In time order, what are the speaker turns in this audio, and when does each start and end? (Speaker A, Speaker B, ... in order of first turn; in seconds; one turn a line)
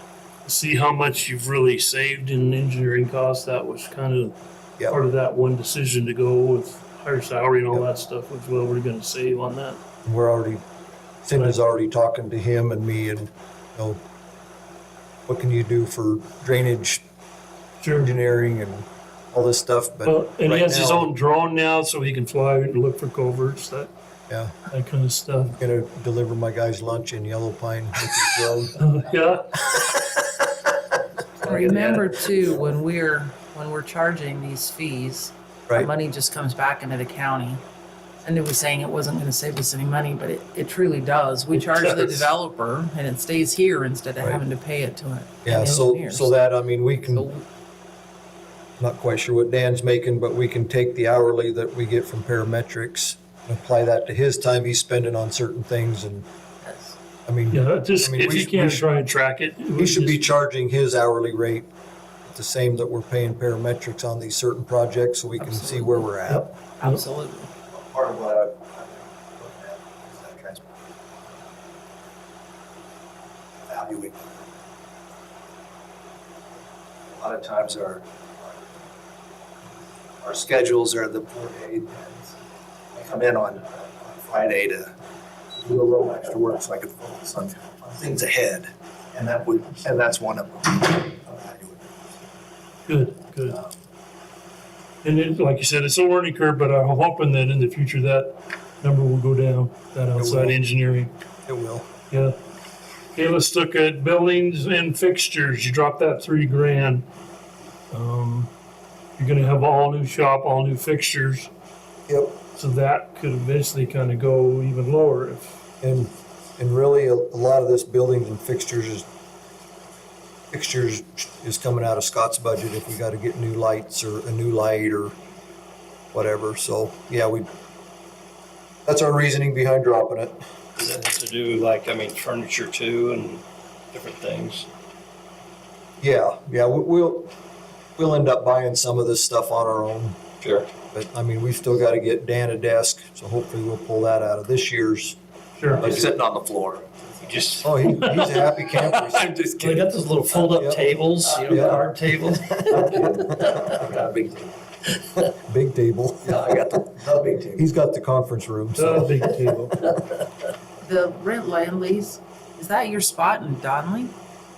Speaker A: 0.5-4.3
Speaker A: 4.9-9.8
Speaker B: 10.1-10.6
Speaker B: 11.2-14.0
Speaker B: 15.3-17.0
Speaker A: 17.8-18.2
Speaker B: 17.9-21.1
Speaker A: 20.1-23.9
Speaker B: 24.3-24.5
Speaker A: 24.7-25.6
Speaker B: 25.6-28.8
Speaker A: 28.8-29.7
Speaker C: 31.4-37.6
Speaker C: 38.2-46.3
Speaker A: 41.6-42.3
Speaker B: 45.4-47.3
Speaker C: 47.1-47.4
Speaker B: 48.8-56.2
Speaker C: 56.6-57.0
Speaker B: 57.3-58.9
Speaker A: 57.5-60.3
Speaker B: 59.8-61.7
Speaker B: 62.2-66.5
Speaker C: 65.4-66.1
Speaker A: 66.3-67.0
Speaker C: 66.8-67.5
Speaker D: 67.7-70.6
Speaker D: 73.7-74.5
Speaker D: 77.1-78.6
Speaker D: 80.2-82.3
Speaker D: 82.9-84.9
Speaker D: 85.6-91.9
Speaker A: 92.9-93.6
Speaker A: 95.0-101.1
Speaker B: 100.2-100.6
Speaker B: 101.5-101.9
Speaker A: 103.2-107.0
Speaker A: 107.9-108.5
Speaker A: 109.2-111.5
Speaker B: 112.1-112.4
Speaker A: 112.5-115.6
Speaker B: 115.8-119.1
Speaker B: 120.5-125.1
Speaker B: 126.1-127.5
Speaker B: 128.9-130.4
Speaker E: 130.8-134.7
Speaker B: 136.0-137.3
Speaker B: 138.0-140.2
Speaker E: 140.4-140.7
Speaker B: 140.9-145.2
Speaker A: 145.6-146.0
Speaker D: 145.8-147.1
Speaker E: 147.2-153.9
Speaker B: 147.6-149.3
Speaker D: 149.3-149.8
Speaker B: 150.5-150.8
Speaker B: 151.5-151.8
Speaker D: 152.9-154.5
Speaker B: 155.4-156.4
Speaker D: 156.2-157.6
Speaker B: 157.5-159.3
Speaker A: 158.8-159.9
Speaker C: 160.8-164.1